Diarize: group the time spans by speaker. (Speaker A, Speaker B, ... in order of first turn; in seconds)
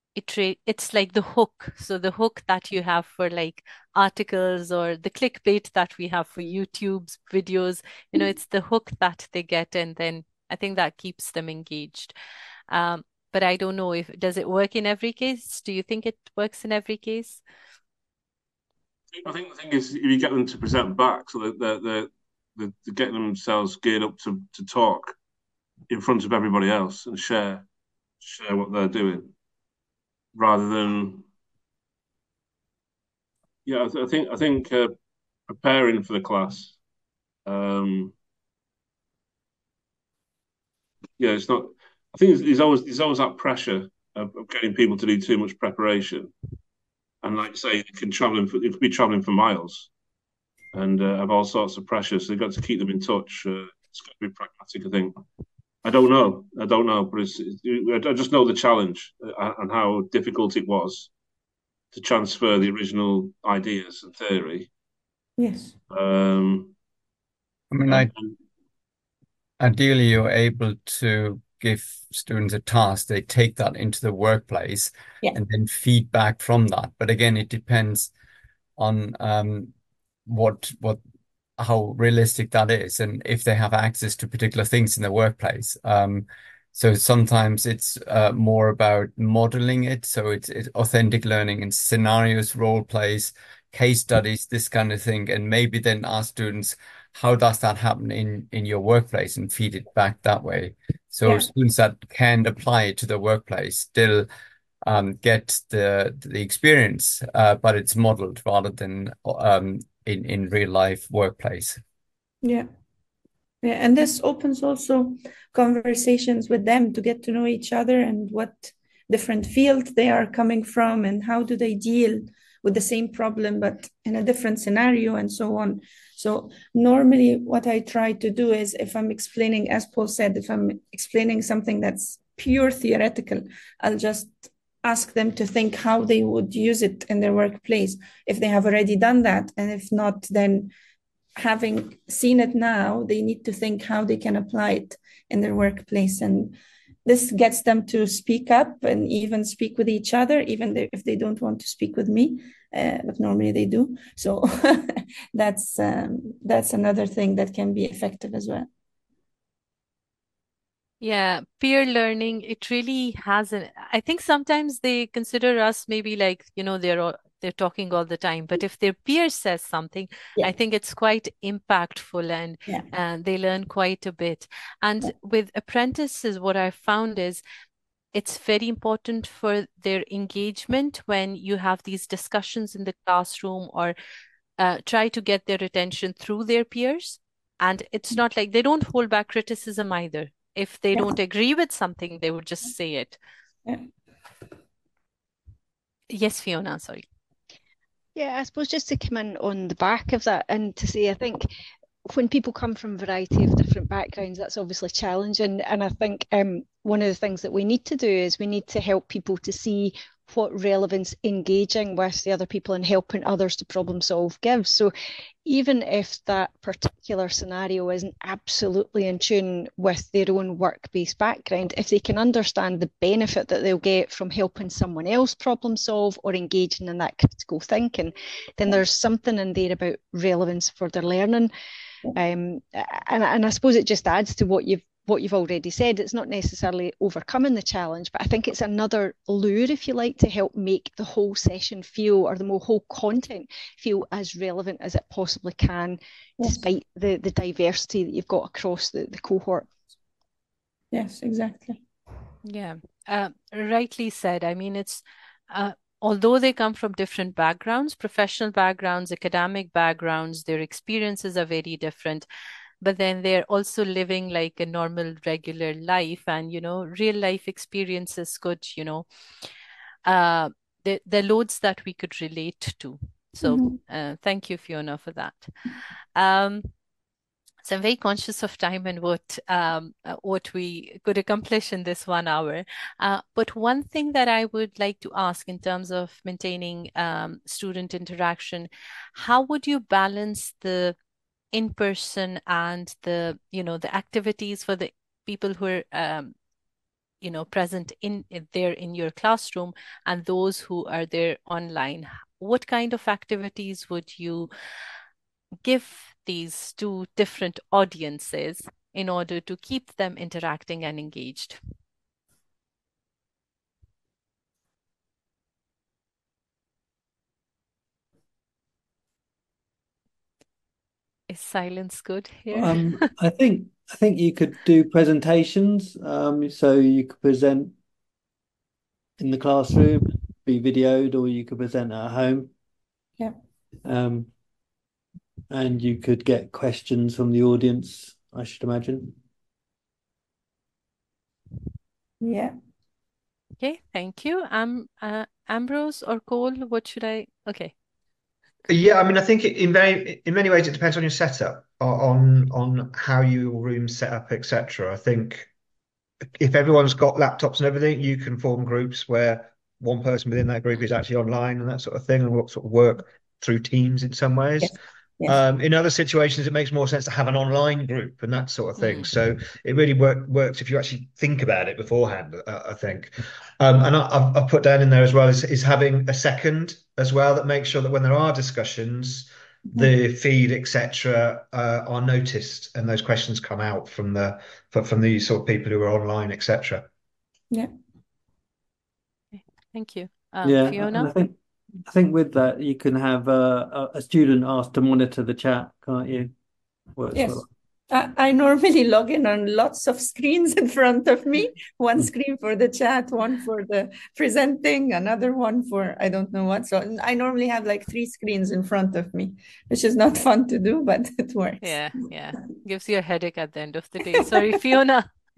Speaker A: 0.1-12.1, 12.7-17.4, 161.0-177.4, 178.1-183.9, 184.6-193.2, 196.1-197.0, 252.4-262.2, 262.8-269.0, 270.0-275.5, 276.1-276.7, 277.6-290.9, 291.5-296.3, 297.2-304.5, 305.6-311.6, 321.3-322.9, 343.6-347.7, 368.8-369.1, 389.3-391.1, 411.6-415.1
Speaker B: 19.1-25.1, 25.9-27.6, 28.2-29.3, 30.3-31.2, 33.6-34.9, 35.5-36.8, 37.5-38.1, 41.2-46.3, 47.2-49.9, 50.7-55.1, 55.8-61.1, 61.9-64.7, 65.9-66.7, 67.9-68.3
Speaker C: 65.4-65.7, 101.2-101.5, 113.6-140.7, 141.3-158.7, 246.4-246.7, 250.9-251.8, 273.4-273.8, 342.2-342.5, 364.6-365.3, 397.1-411.7
Speaker D: 67.7-68.1, 69.6-78.1, 78.8-79.7, 80.2-81.0, 81.6-104.3, 104.8-111.8
Speaker E: 198.1-201.5, 202.1-214.9, 215.4-231.5, 232.1-249.7
Speaker F: 322.5-327.8, 329.2-332.5, 333.8-334.3, 335.5-339.1, 390.4-391.3, 391.9-396.3, 396.9-397.4
Speaker G: 348.7-355.5, 356.4-386.9